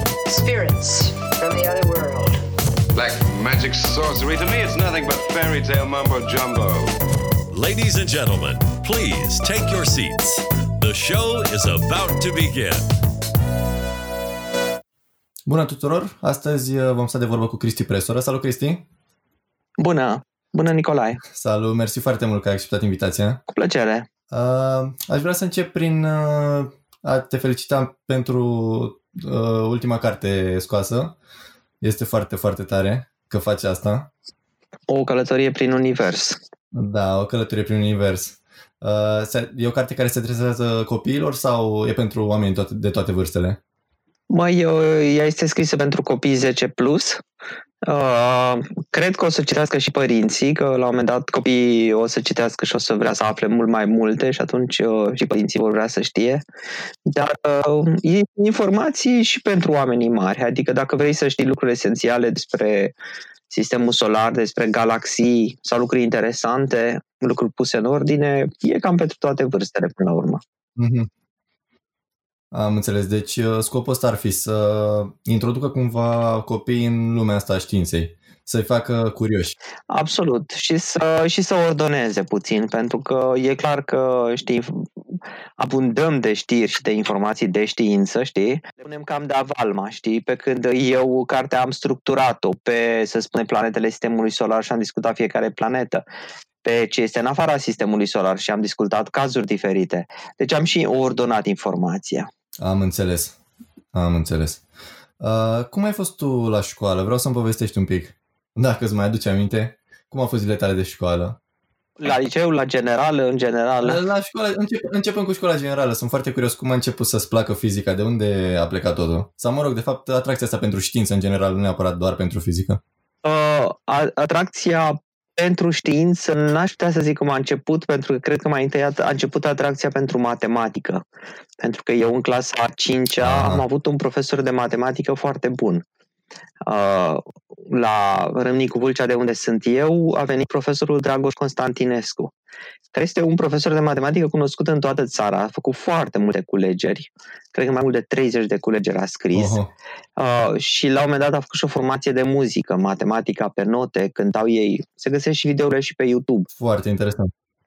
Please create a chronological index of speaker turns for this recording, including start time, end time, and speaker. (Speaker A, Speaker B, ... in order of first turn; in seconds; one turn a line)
Speaker A: 0.3-2.4
Speaker B: 2.9-6.9
Speaker C: 7.5-12.8
Speaker D: 15.4-18.8
Speaker E: 19.8-21.2
Speaker D: 21.2-23.4
Speaker E: 23.5-24.1
Speaker D: 24.3-31.1
Speaker D: 31.8-34.1
Speaker E: 34.9-36.4
Speaker D: 36.7-43.6
Speaker E: 44.3-47.2
Speaker E: 47.8-56.4
Speaker E: 57.0-62.9
Speaker E: 63.5-70.4
Speaker D: 70.8-71.1
Speaker D: 72.5-79.5
Speaker E: 79.9-84.9
Speaker E: 85.6-96.0
Speaker E: 96.6-102.3
Speaker D: 102.6-103.3
Speaker D: 103.9-104.6
Speaker D: 105.2-111.4
Speaker E: 112.0-114.0
Speaker D: 113.8-122.8
Speaker E: 123.2-131.0
Speaker E: 131.6-135.8
Speaker D: 133.2-133.6
Speaker E: 136.6-142.3
Speaker E: 142.9-149.6
Speaker D: 149.3-149.7
Speaker E: 150.2-156.5
Speaker D: 156.6-157.3